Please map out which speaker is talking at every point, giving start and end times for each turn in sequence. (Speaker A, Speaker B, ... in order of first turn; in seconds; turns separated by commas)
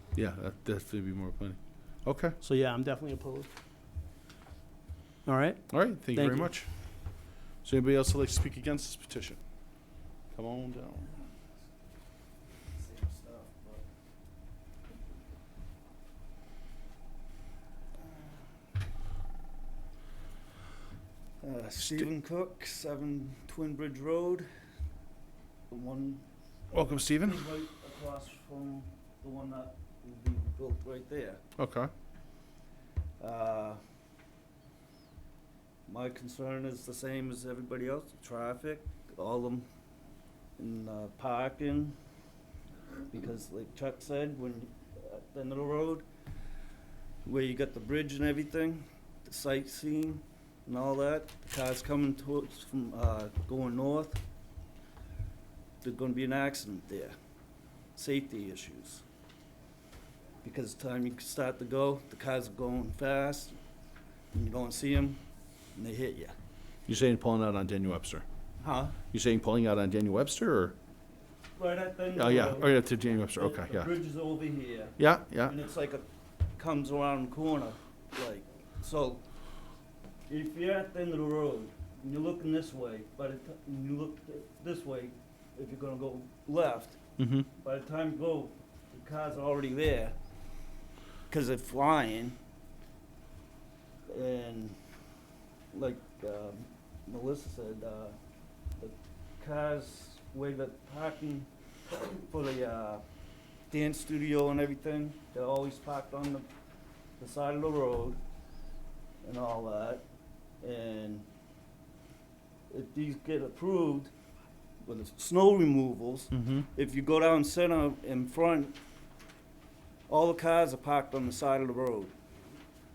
Speaker A: 0.1-2.4, Speaker B: 2.4-3.5, Speaker B: 5.3-6.5, Speaker A: 5.7-9.4, Speaker A: 10.3-11.1, Speaker C: 12.8-13.8, Speaker C: 21.4-24.5, Speaker C: 25.7-26.2, Speaker A: 26.7-27.5, Speaker C: 27.2-31.4, Speaker A: 31.6-31.9, Speaker C: 33.2-33.8, Speaker C: 35.9-39.7, Speaker C: 40.6-42.0, Speaker C: 43.1-46.0, Speaker C: 47.2-54.2, Speaker C: 55.8-57.1, Speaker C: 58.0-59.0, Speaker C: 60.4-63.6, Speaker C: 64.3-65.2, Speaker C: 65.8-66.3, Speaker A: 66.9-68.2, Speaker C: 68.6-69.0, Speaker A: 69.1-70.8, Speaker C: 71.6-72.7, Speaker A: 72.1-73.9, Speaker C: 73.4-76.0, Speaker A: 75.0-75.5, Speaker C: 76.6-79.2, Speaker C: 80.3-87.0, Speaker A: 87.2-87.5, Speaker C: 87.6-90.2, Speaker C: 91.3-92.4, Speaker C: 94.1-94.8, Speaker C: 95.7-98.2, Speaker C: 98.8-103.0, Speaker C: 103.7-106.5, Speaker C: 107.2-108.2, Speaker C: 109.2-110.0, Speaker C: 110.6-111.3, Speaker C: 112.7-114.1, Speaker C: 114.8-118.8, Speaker A: 116.3-116.7, Speaker C: 120.1-122.1